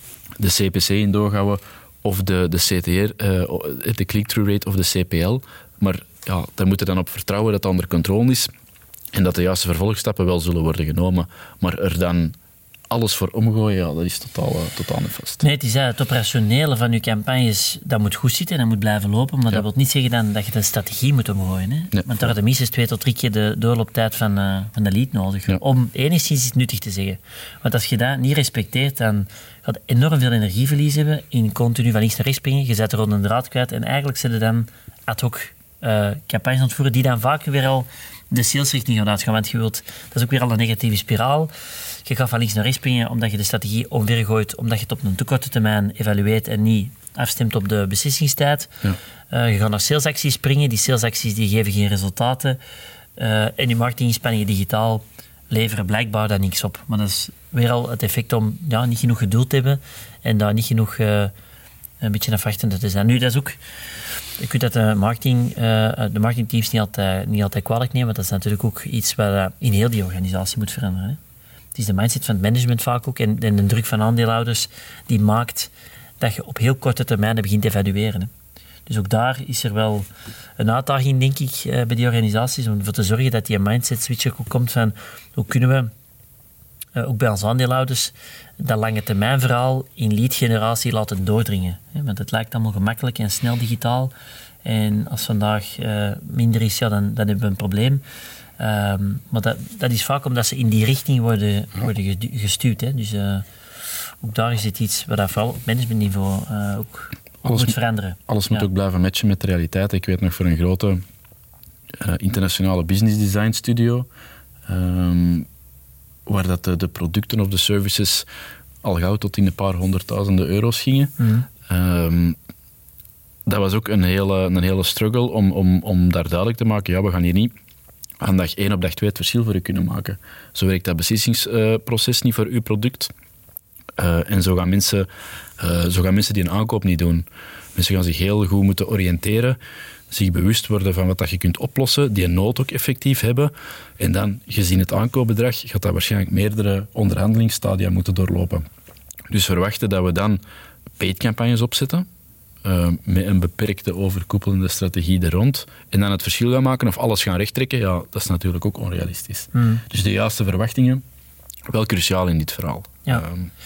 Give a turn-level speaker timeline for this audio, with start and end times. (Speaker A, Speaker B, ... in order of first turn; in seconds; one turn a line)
Speaker A: 0.4-8.5
Speaker A: 9.1-12.3
Speaker A: 12.9-15.4
Speaker B: 15.4-41.5
Speaker A: 21.9-22.3
Speaker B: 42.0-52.6
Speaker B: 53.2-61.3
Speaker B: 62.0-63.6
Speaker B: 64.4-71.2
Speaker B: 71.7-78.3
Speaker B: 78.9-80.1
Speaker B: 80.6-85.9
Speaker B: 86.9-94.1
Speaker B: 94.6-98.0
Speaker B: 98.6-103.5
Speaker B: 104.2-108.7
Speaker A: 107.4-107.8
Speaker A: 108.3-111.0
Speaker A: 111.9-114.1
Speaker A: 114.7-115.5
Speaker A: 116.2-118.2
Speaker A: 118.8-122.4
Speaker B: 121.2-121.5
Speaker A: 123.5-127.5
Speaker A: 128.2-133.1
Speaker A: 134.0-135.1
Speaker A: 135.6-139.6
Speaker A: 140.1-148.7
Speaker A: 149.3-150.4
Speaker A: 151.0-152.1
Speaker A: 152.6-161.0
Speaker B: 159.5-159.8
Speaker A: 161.7-163.5